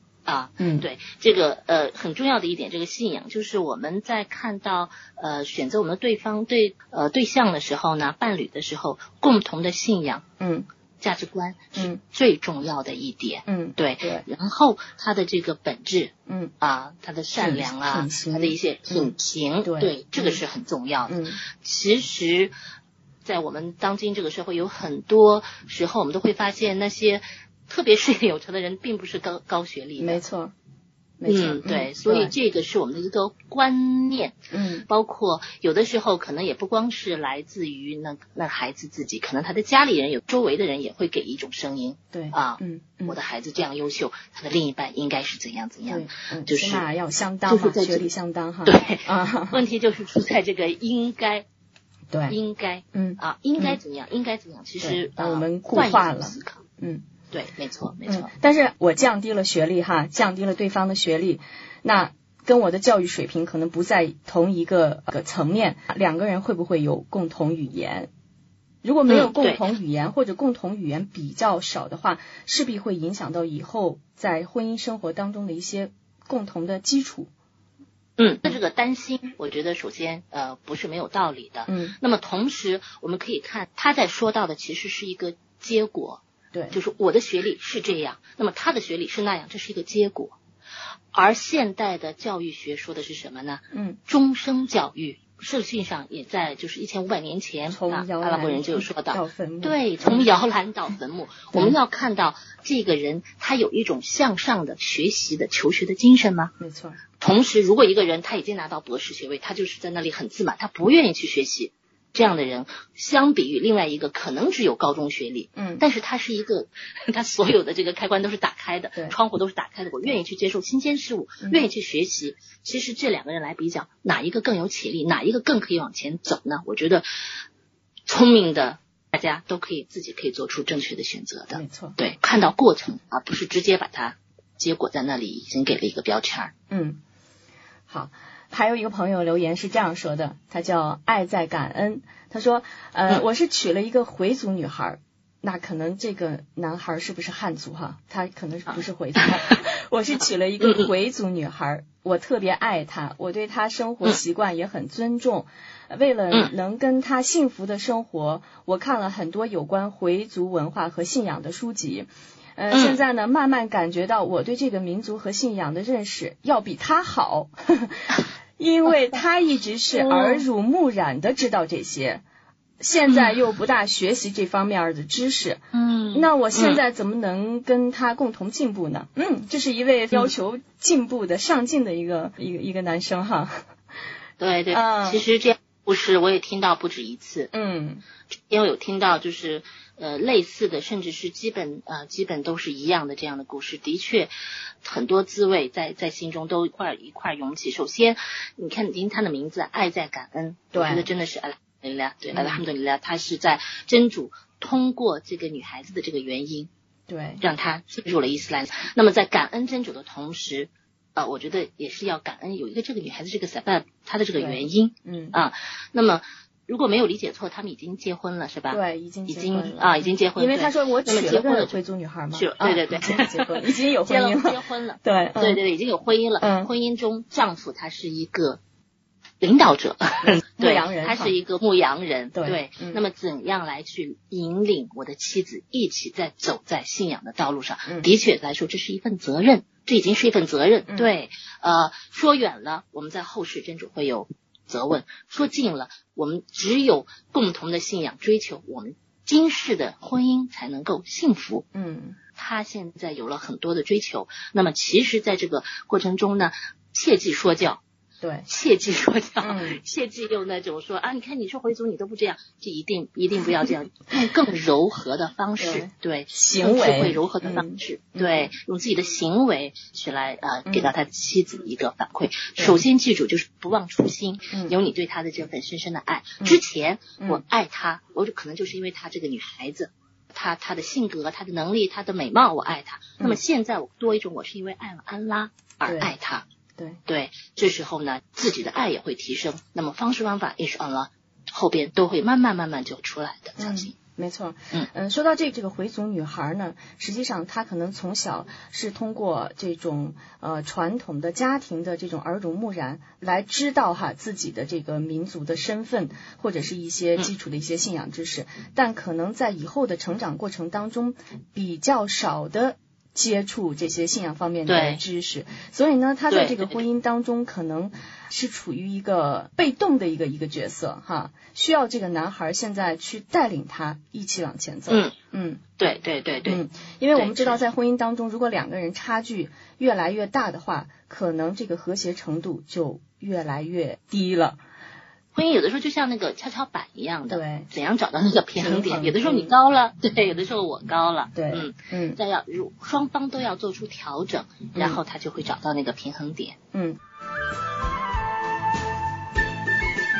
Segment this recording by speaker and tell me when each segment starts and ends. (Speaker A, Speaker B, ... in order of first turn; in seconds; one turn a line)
Speaker A: 0.2-10.2
Speaker B: 0.6-0.8
Speaker B: 10.4-10.7
Speaker A: 11.0-22.5
Speaker B: 13.5-14.2
Speaker B: 17.4-19.1
Speaker B: 19.6-20.4
Speaker B: 21.1-21.4
Speaker A: 23.2-30.2
Speaker B: 30.0-30.5
Speaker B: 31.2-32.3
Speaker A: 31.3-46.9
Speaker B: 34.5-34.8
Speaker B: 42.1-43.1
Speaker B: 45.9-49.6
Speaker A: 47.5-48.1
Speaker A: 48.6-51.5
Speaker B: 52.1-52.4
Speaker A: 52.3-56.6
Speaker B: 52.9-53.8
Speaker B: 54.8-57.0
Speaker A: 57.3-58.3
Speaker B: 58.1-68.1
Speaker B: 68.8-77.3
Speaker A: 69.1-69.6
Speaker A: 78.2-90.4
Speaker B: 81.7-82.0
Speaker B: 86.5-86.8
Speaker A: 91.1-106.5
Speaker B: 93.7-94.0
Speaker B: 97.7-100.3
Speaker B: 106.6-107.0
Speaker A: 107.2-127.3
Speaker B: 115.5-115.8
Speaker A: 128.1-136.5
Speaker B: 131.5-132.0
Speaker B: 136.7-137.0
Speaker B: 137.9-172.2
Speaker A: 162.7-163.0
Speaker A: 169.9-170.4
Speaker B: 172.8-175.6
Speaker A: 175.7-176.8
Speaker B: 176.1-183.6
Speaker A: 184.4-187.5
Speaker B: 184.7-185.2
Speaker B: 187.5-188.0
Speaker A: 188.3-194.3
Speaker A: 194.8-206.7
Speaker B: 200.7-201.1
Speaker B: 202.3-202.6
Speaker B: 207.1-207.4
Speaker A: 207.4-221.8
Speaker B: 214.3-215.4
Speaker B: 218.7-225.6
Speaker A: 222.3-228.6
Speaker B: 226.4-226.7
Speaker A: 229.4-251.7
Speaker B: 230.2-231.3
Speaker B: 232.3-233.0
Speaker B: 251.7-252.2
Speaker A: 252.3-257.8
Speaker A: 258.5-286.4
Speaker B: 259.4-259.8
Speaker B: 265.6-268.5
Speaker B: 285.9-286.1
Speaker A: 287.1-293.9
Speaker B: 293.6-325.6
Speaker A: 314.7-315.0
Speaker A: 316.3-316.8
Speaker A: 324.9-325.1
Speaker A: 325.8-326.6
Speaker B: 326.4-334.6
Speaker A: 327.1-327.6
Speaker A: 335.3-346.6
Speaker B: 337.3-337.7
Speaker B: 338.6-339.5
Speaker B: 341.3-342.2
Speaker B: 344.7-345.0
Speaker B: 346.7-347.0